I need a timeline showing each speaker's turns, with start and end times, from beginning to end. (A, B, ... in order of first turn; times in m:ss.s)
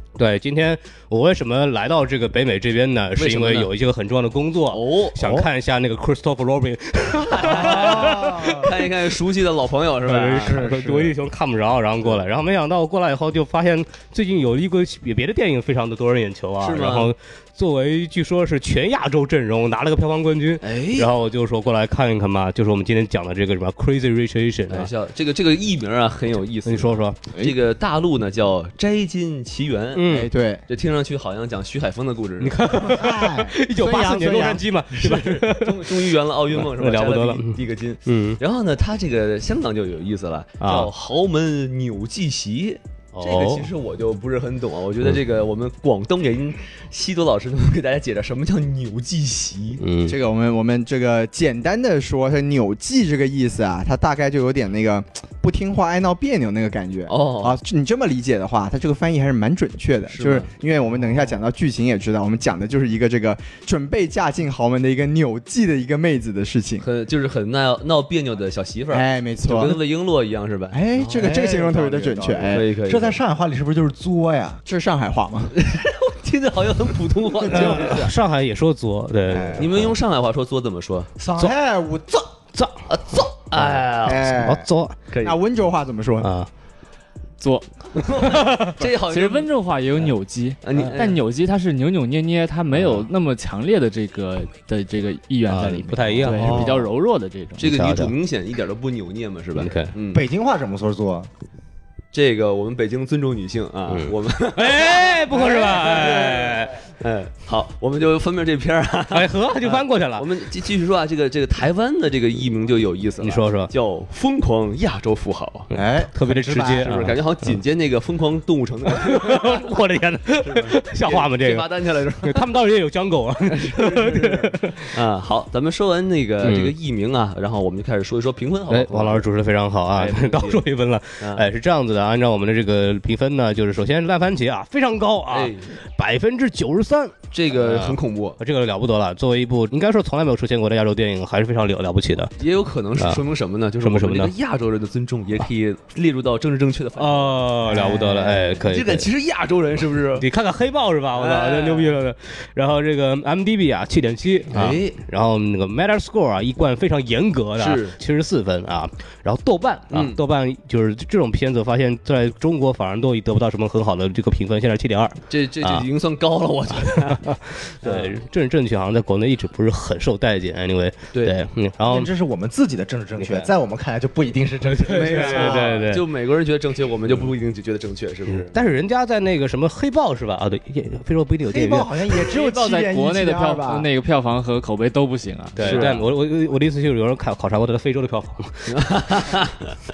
0:00.2-0:08.6 A
0:03.2-0:03.7 B
0:04.7-0:05.2 B
0:05.2-0:05.5 C
0:07.3-0:10.6 B
0:07.4-0:08.7 C
0:10.0-0:24.9 A
0:10.3-0:11.2 C
0:16.6-0:17.1 B
0:20.6-0:21.1 B
0:24.7-0:30.0 B
0:26.6-0:27.2 A
0:29.9-0:30.3 A
0:30.1-0:30.6 C
0:30.1-0:30.6 D
0:30.7-0:32.6 B
0:32.4-0:38.4 A
0:32.8-0:34.6 C
0:34.9-0:49.8 B
0:40.6-0:40.9 A
0:43.2-0:43.7 A
0:49.8-0:50.2 A
0:50.0-1:06.8 D
0:57.1-0:57.6 B
1:00.1-1:00.5 B
1:06.8-1:11.2 B
1:08.9-1:09.8 D
1:10.7-1:12.6 D
1:11.0-1:14.6 C
1:12.5-1:13.2 B
1:14.6-1:15.5 D
1:15.5-1:18.1 B
1:17.5-1:19.9 A
1:17.6-1:17.9 D
1:19.3-1:19.7 D
1:19.6-1:21.1 B
1:21.2-1:22.3 C
1:22.5-1:22.8 A
1:22.9-1:24.4 B
1:24.0-1:24.7 D
1:24.3-1:25.0 A
1:25.1-1:25.4 B
1:25.2-1:26.3 D
1:26.2-1:26.5 A
1:27.4-1:37.7 E
1:27.9-1:30.1 B
1:30.6-1:31.2 B
1:32.7-1:33.1 A
1:35.5-1:36.8 A
1:36.3-1:36.7 C
1:37.6-1:40.2 B
1:37.6-1:38.1 A
1:39.5-1:39.9 A
1:40.1-1:41.3 C
1:42.1-1:55.7 B
1:43.9-1:46.7 A
1:49.1-1:50.3 A
1:53.2-1:53.7 A
1:55.7-1:57.5 A
1:55.7-1:57.1 C
1:56.8-1:59.6 B
1:59.0-2:01.7 A
2:00.4-2:02.4 B
2:02.2-2:04.8 A
2:03.5-2:09.2 B
2:06.4-2:06.7 A
2:08.7-2:22.3 A
2:09.9-2:10.6 B
2:11.2-2:11.4 B
2:15.3-2:15.7 B
2:17.3-2:18.4 B
2:22.4-2:30.2 B
2:23.8-2:24.3 A
2:27.0-2:29.1 A
2:30.2-2:45.8 A
2:31.2-2:32.0 B
2:34.5-2:35.0 B
2:37.6-2:38.0 B
2:39.9-2:40.2 B
2:45.3-2:47.2 B
2:46.8-2:52.1 A
2:47.8-2:48.1 B
2:51.9-2:55.7 C
2:53.2-2:53.5 A
2:54.6-2:56.0 A
2:54.9-2:58.5 B
2:58.3-3:02.2 A
3:01.5-3:03.9 C
3:02.3-3:06.0 E
3:05.6-3:06.0 B
3:05.6-3:08.7 A
3:08.7-3:09.8 B